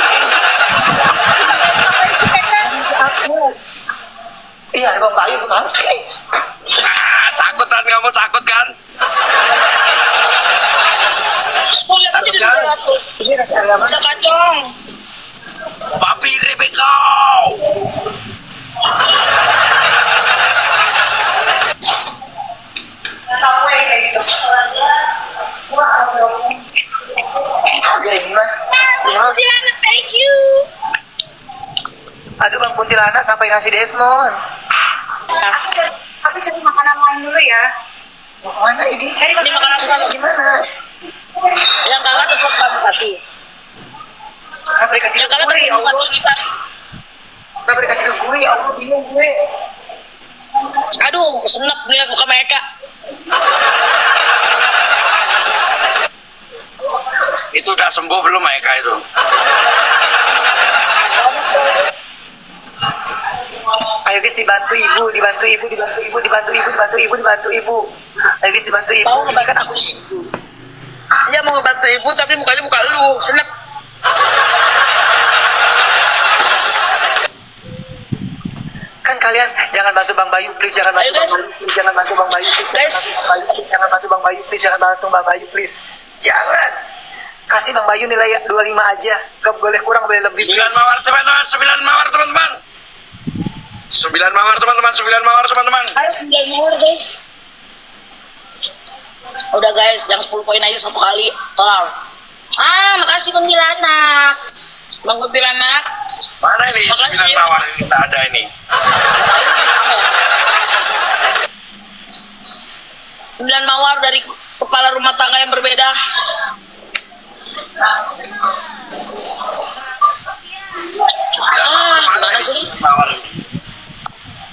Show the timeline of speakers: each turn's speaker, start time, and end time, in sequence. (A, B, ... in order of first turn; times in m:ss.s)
0:01.1-0:03.5 A
0:04.7-0:06.0 B
0:06.7-0:08.7 C
0:11.6-0:13.1 A
0:12.2-0:14.1 B
0:13.8-0:14.7 A
0:16.0-0:17.6 C
0:23.3-0:24.6 D
0:25.7-0:26.6 D
0:27.8-0:28.5 B
0:28.9-0:30.7 A
0:29.0-0:29.4 B
0:32.4-0:34.4 B
0:35.4-0:35.6 A
0:35.4-0:37.7 D
0:38.4-0:40.6 B
0:39.3-0:40.1 D
0:39.4-0:40.1 A
0:41.8-0:43.2 A
0:44.8-0:46.0 B
0:45.2-0:46.4 A
0:47.7-0:49.3 B
0:51.0-0:52.6 A
0:57.5-0:59.0 C
1:01.2-1:01.9 A
1:04.0-1:07.8 B
1:08.4-1:10.3 B
1:09.0-1:09.9 A
1:11.3-1:13.5 A
1:19.0-1:26.7 B
1:21.0-1:21.4 A
1:22.7-1:23.2 A
1:27.5-1:30.7 B
1:30.4-1:32.6 C
1:33.9-1:36.0 C
1:36.0-1:37.1 A
1:39.5-1:41.9 A
1:42.6-1:44.4 A
1:45.0-1:45.8 A
1:46.4-1:48.5 C
1:46.9-1:47.5 A
1:49.1-1:50.1 A
1:53.4-1:55.9 A
2:01.4-2:03.3 C
2:01.5-2:02.7 A